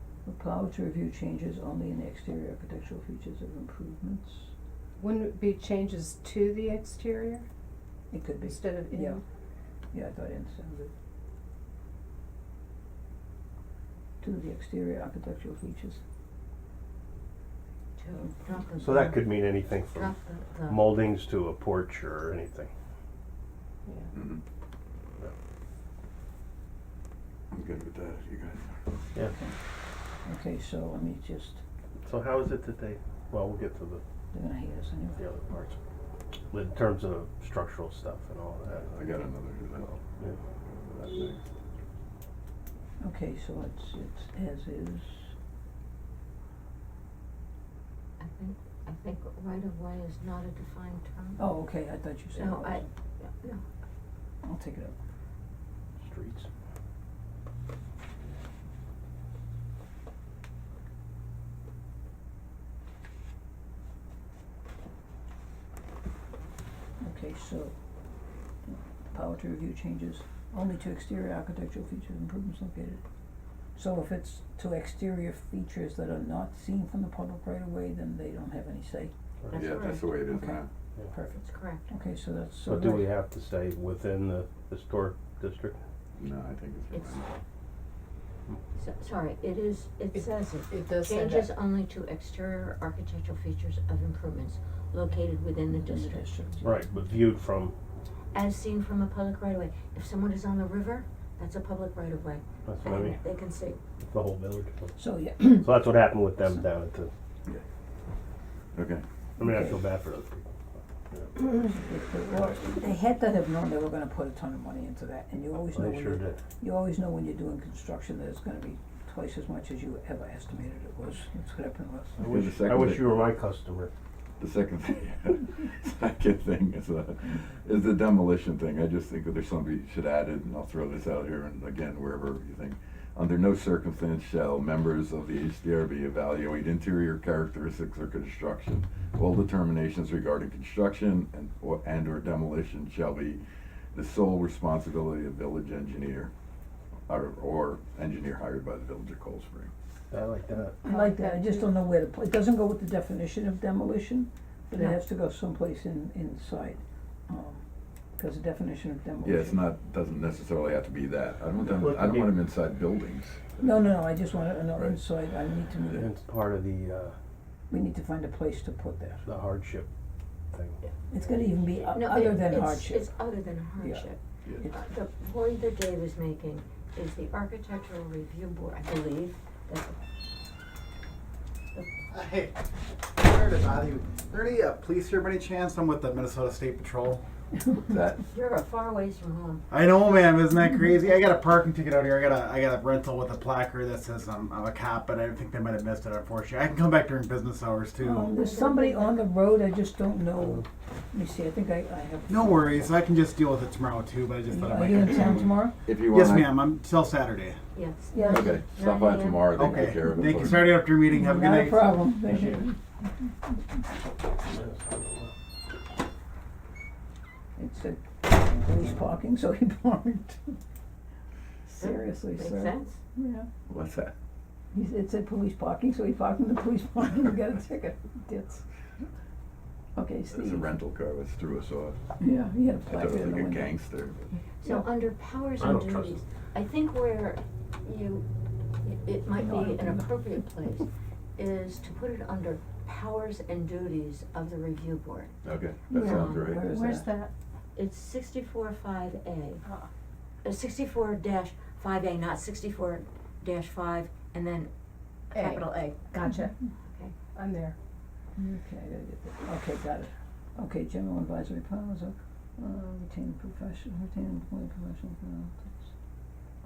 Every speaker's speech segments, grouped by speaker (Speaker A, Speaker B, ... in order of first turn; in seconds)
Speaker A: 0.2-4.5, 8.1-9.2, 9.9-10.9, 14.2-16.0, 29.3-29.6, 30.2-31.6, 34.3-35.2, 43.0-45.3, 51.4-52.9, 54.4-55.0, 67.0-67.7, 68.7-73.0, 73.7-79.1, 80.3-83.1, 95.7-96.8, 105.0-105.7, 109.4-109.8, 111.3-122.2, 150.8-157.6, 158.2-159.6, 163.6-166.1, 167.7-169.2, 171.1-173.1, 173.8-174.1, 198.0-202.9, 204.5-205.8, 208.1-208.6, 210.1-212.8, 217.6-220.6, 221.7-223.5, 224.7-228.6, 229.9-230.7, 232.2-233.7, 239.3-240.1, 245.9-247.1, 258.4-265.9
Speaker B: 5.0-7.5, 8.4-9.2, 90.1-91.5, 150.8-151.7, 246.6-247.3, 249.6-249.9, 255.3-256.6, 257.3-257.7
Speaker C: 18.0-19.3, 19.8-20.9, 48.2-51.5, 52.3-53.6, 79.5-80.2, 81.3-81.8, 86.9-87.2, 88.7-96.3, 98.3-103.8, 154.7-155.0, 171.9-179.9, 188.3-189.6, 198.3-199.2, 207.7-209.9, 221.7-223.0, 234.6-238.2, 238.8-245.3, 246.0-246.6, 247.7-249.6, 250.4-254.7, 255.3-256.0, 256.9-257.1
Speaker D: 18.8-20.1, 20.7-22.7, 32.0-34.0, 35.2-35.8, 36.5-39.0, 56.0-56.5, 79.4-79.7, 82.7-85.8, 96.6-97.7, 102.7-103.2, 104.0-104.9, 105.6-107.1, 109.4-111.3, 115.7-116.4, 122.2-123.9, 150.1-150.8, 161.6-162.4, 166.0-167.1, 169.2-169.9, 170.5-170.8, 214.5-215.3, 235.6-236.1
Speaker E: 24.1-24.4, 27.5-28.8, 38.9-40.0, 40.6-41.4, 79.5-80.7, 86.2-87.3, 108.7-109.0, 122.2-123.2, 124.4-143.4, 143.9-146.3, 147.1-149.7, 159.2-163.8, 187.9-188.2, 205.8-206.6, 208.3-210.7, 223.7-224.1, 230.3-232.0, 232.9-234.2, 245.4-246.6
Speaker F: 182.1-187.2, 189.7-198.3, 202.3-205.5, 206.1-207.6, 209.5-212.6